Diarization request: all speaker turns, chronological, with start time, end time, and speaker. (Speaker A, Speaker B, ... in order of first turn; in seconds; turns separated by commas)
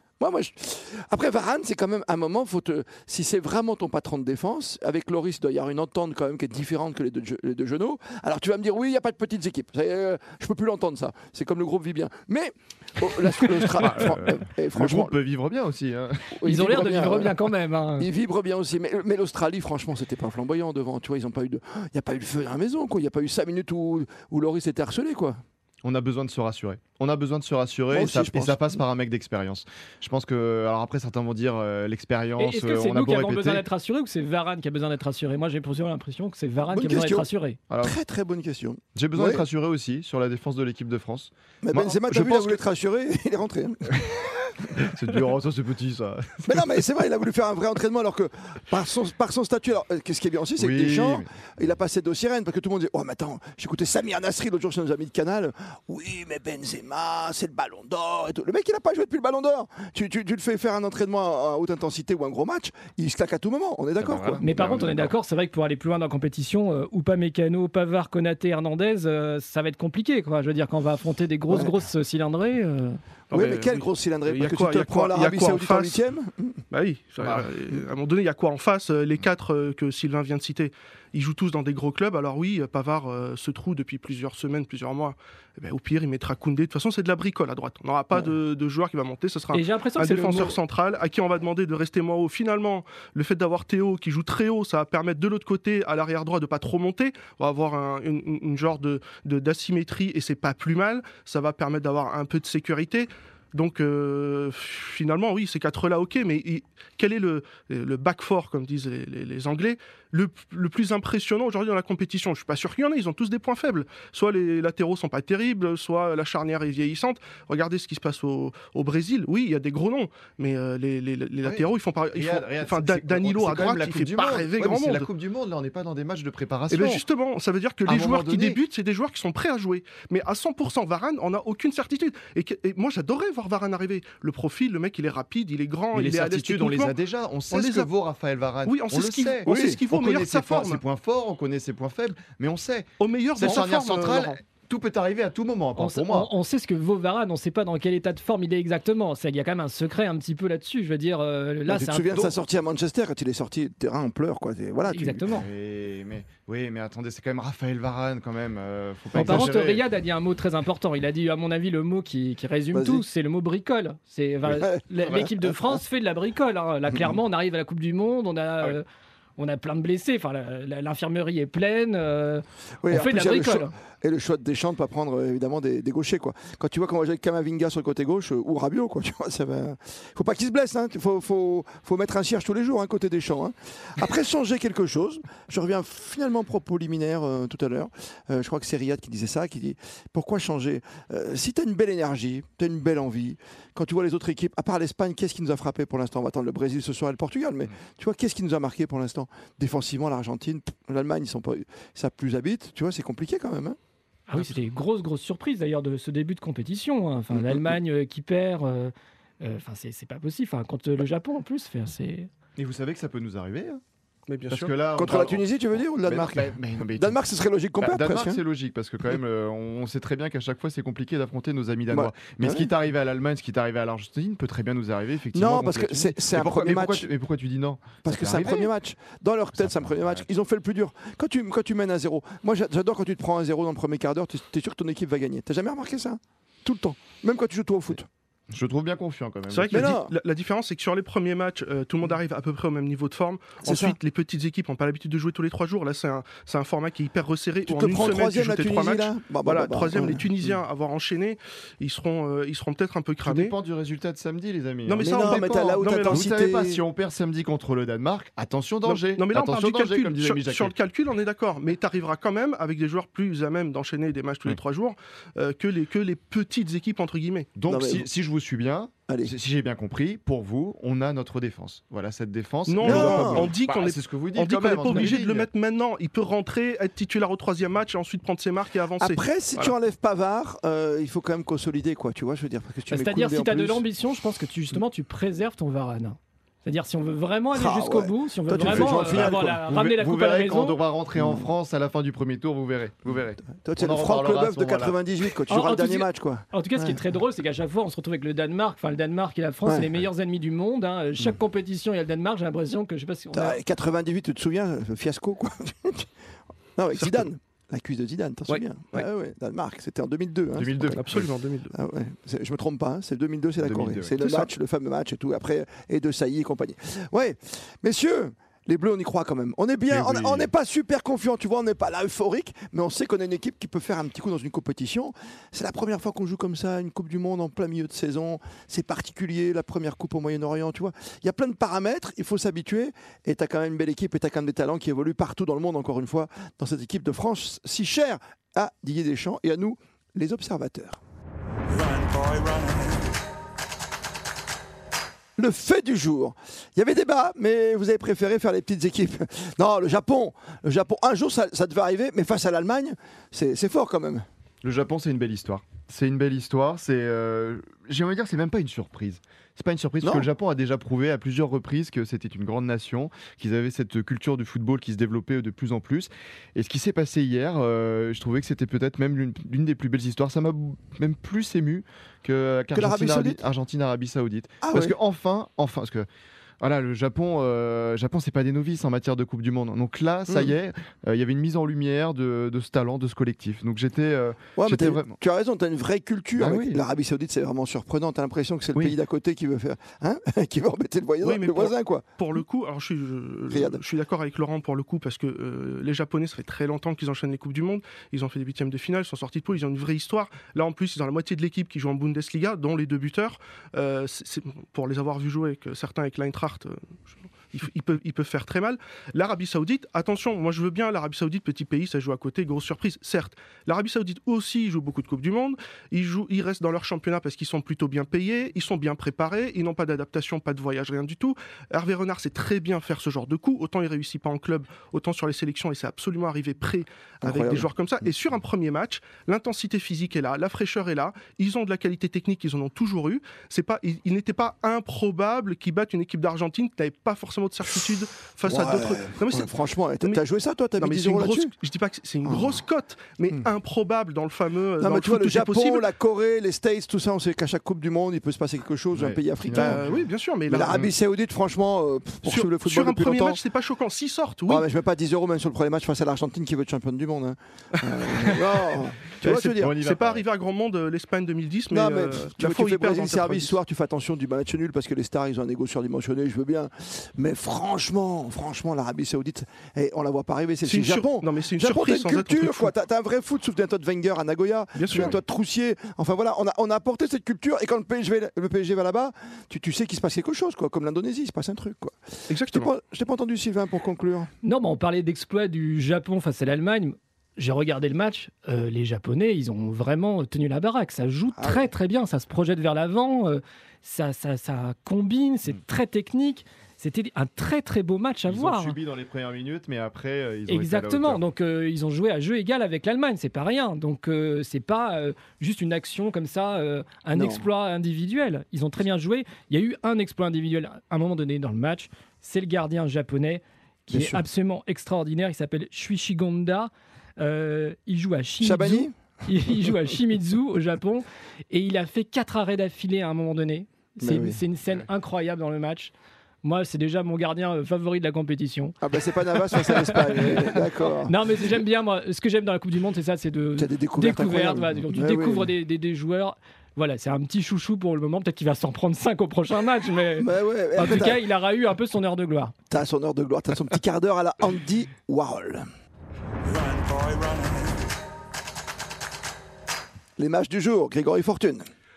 Speaker A: 0.2-15.2, Speaker B: 13.8-16.4, Speaker A: 16.4-17.3, Speaker C: 16.4-18.1, Speaker A: 18.0-25.4, Speaker B: 25.8-33.6, Speaker A: 27.9-28.8, Speaker C: 32.4-37.6, Speaker A: 36.7-37.3, Speaker A: 37.8-39.4, Speaker B: 38.9-42.6, Speaker A: 41.6-44.4, Speaker B: 44.8-46.8, Speaker A: 46.5-64.4, Speaker B: 50.6-51.3, Speaker B: 64.0-65.1, Speaker C: 64.4-73.0, Speaker A: 71.5-71.7, Speaker D: 73.3-76.0, Speaker A: 73.3-76.6, Speaker D: 76.7-125.1, Speaker C: 89.5-90.6, Speaker B: 121.4-127.0, Speaker D: 126.7-137.9, Speaker B: 127.9-128.6, Speaker B: 135.9-146.3, Speaker D: 138.6-140.8, Speaker A: 139.5-139.8, Speaker D: 143.0-144.4, Speaker C: 145.8-152.3, Speaker A: 151.7-155.2, Speaker B: 151.8-152.3, Speaker C: 154.9-155.5, Speaker B: 155.3-159.8, Speaker C: 159.1-168.8, Speaker A: 159.2-159.5, Speaker A: 162.7-163.1, Speaker A: 164.5-165.6, Speaker C: 169.4-173.7, Speaker A: 172.8-203.8, Speaker C: 204.3-212.3, Speaker A: 207.3-207.6, Speaker B: 212.6-213.8, Speaker D: 214.3-214.7, Speaker B: 214.5-217.2, Speaker A: 214.9-218.4, Speaker B: 217.8-228.7, Speaker A: 221.9-222.7, Speaker A: 225.3-227.1, Speaker A: 228.0-238.1, Speaker B: 229.6-230.2, Speaker B: 238.5-240.0, Speaker D: 239.5-253.5, Speaker A: 239.7-240.1, Speaker A: 243.6-244.0, Speaker A: 247.7-250.5, Speaker B: 253.2-260.7, Speaker D: 254.9-256.2, Speaker A: 255.0-256.8, Speaker D: 258.9-267.5, Speaker B: 267.6-275.5, Speaker A: 267.7-268.1, Speaker A: 269.1-269.3, Speaker D: 272.7-279.7, Speaker A: 272.8-273.5, Speaker C: 274.9-275.1, Speaker A: 279.0-283.8, Speaker C: 282.9-290.8, Speaker A: 287.5-289.6, Speaker B: 288.6-295.0, Speaker A: 291.2-291.5, Speaker A: 293.6-297.0, Speaker C: 295.5-303.6, Speaker A: 299.6-299.9, Speaker A: 303.3-306.1, Speaker A: 306.8-341.0, Speaker D: 308.5-309.1, Speaker B: 310.5-311.3, Speaker D: 310.9-311.8, Speaker B: 313.6-314.1, Speaker D: 314.2-314.5, Speaker B: 319.9-320.5, Speaker A: 345.4-354.2, Speaker B: 354.6-376.1, Speaker A: 360.0-360.3, Speaker A: 372.7-373.4, Speaker A: 374.6-374.9, Speaker B: 376.6-385.1, Speaker A: 384.6-392.1, Speaker B: 386.4-386.8, Speaker D: 391.2-406.9, Speaker A: 393.5-393.8, Speaker D: 407.5-440.2, Speaker A: 427.2-427.7, Speaker A: 438.5-441.5, Speaker D: 440.8-445.9, Speaker A: 442.2-442.6, Speaker A: 444.8-449.9, Speaker B: 448.9-450.0, Speaker D: 449.5-450.8, Speaker A: 450.5-453.4, Speaker D: 452.2-454.7, Speaker A: 454.5-459.8, Speaker D: 458.0-458.6, Speaker D: 459.2-463.6, Speaker B: 459.5-460.2, Speaker A: 461.7-484.3, Speaker D: 470.6-472.7, Speaker D: 474.8-475.2, Speaker D: 482.3-482.7, Speaker C: 484.4-498.8, Speaker A: 491.4-491.6, Speaker B: 498.3-501.2, Speaker C: 500.5-528.8, Speaker A: 507.1-507.5, Speaker A: 513.9-514.2, Speaker A: 518.4-518.9, Speaker A: 524.0-524.4, Speaker A: 528.8-531.1, Speaker C: 529.6-542.5, Speaker A: 533.6-535.5, Speaker A: 540.2-541.2, Speaker A: 542.7-545.6, Speaker A: 550.2-551.6